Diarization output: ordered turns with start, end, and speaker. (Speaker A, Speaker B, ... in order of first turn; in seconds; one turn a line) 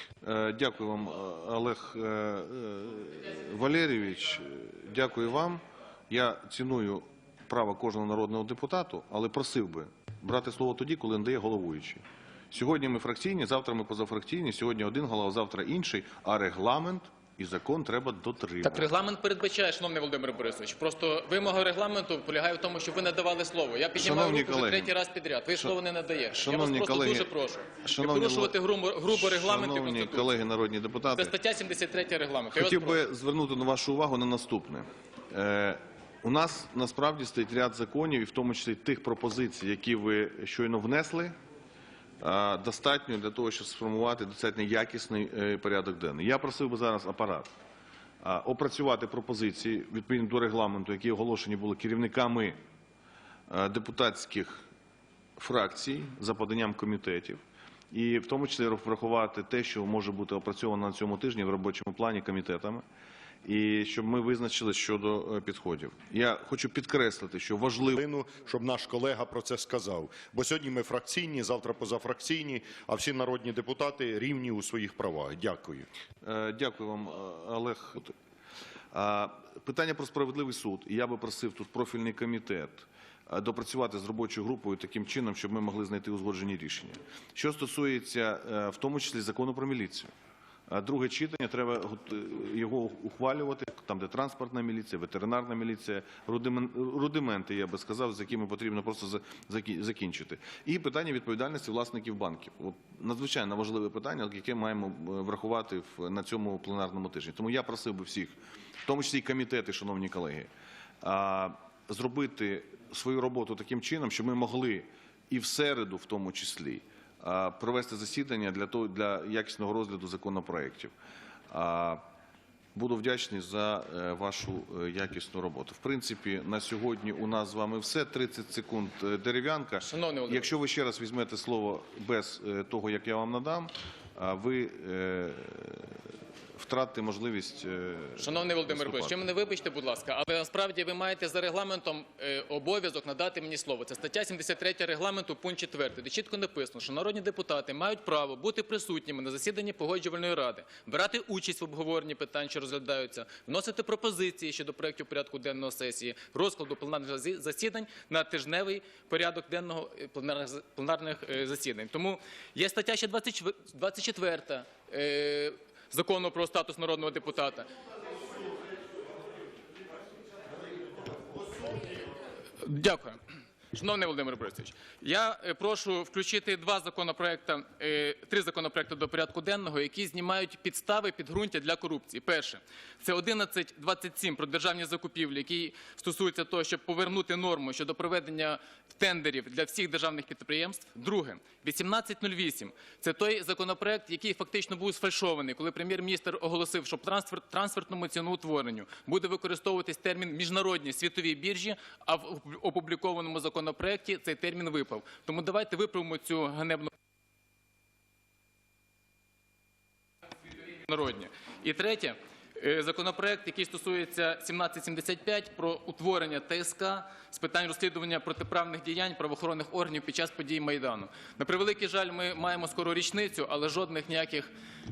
Speaker A: 0.2-18.9
Speaker B: 18.6-30.4
Speaker A: 23.9-24.9
Speaker A: 26.3-28.6
Speaker A: 29.1-31.3
Speaker B: 31.1-33.0
Speaker A: 32.5-41.3
Speaker A: 42.2-47.5
Speaker A: 48.2-52.6
Speaker A: 53.5-54.6
Speaker A: 55.4-57.4
Speaker A: 57.9-62.8
Speaker A: 63.4-68.0
Speaker C: 67.9-75.9
Speaker A: 76.2-78.1
Speaker A: 78.9-90.1
Speaker A: 90.7-110.5
Speaker A: 111.0-120.9
Speaker A: 121.5-122.0
Speaker A: 122.7-136.0
Speaker B: 129.8-130.5
Speaker A: 136.5-139.2
Speaker B: 138.2-167.7
Speaker B: 172.6-173.2
Speaker B: 173.7-206.9
Speaker B: 210.5-224.5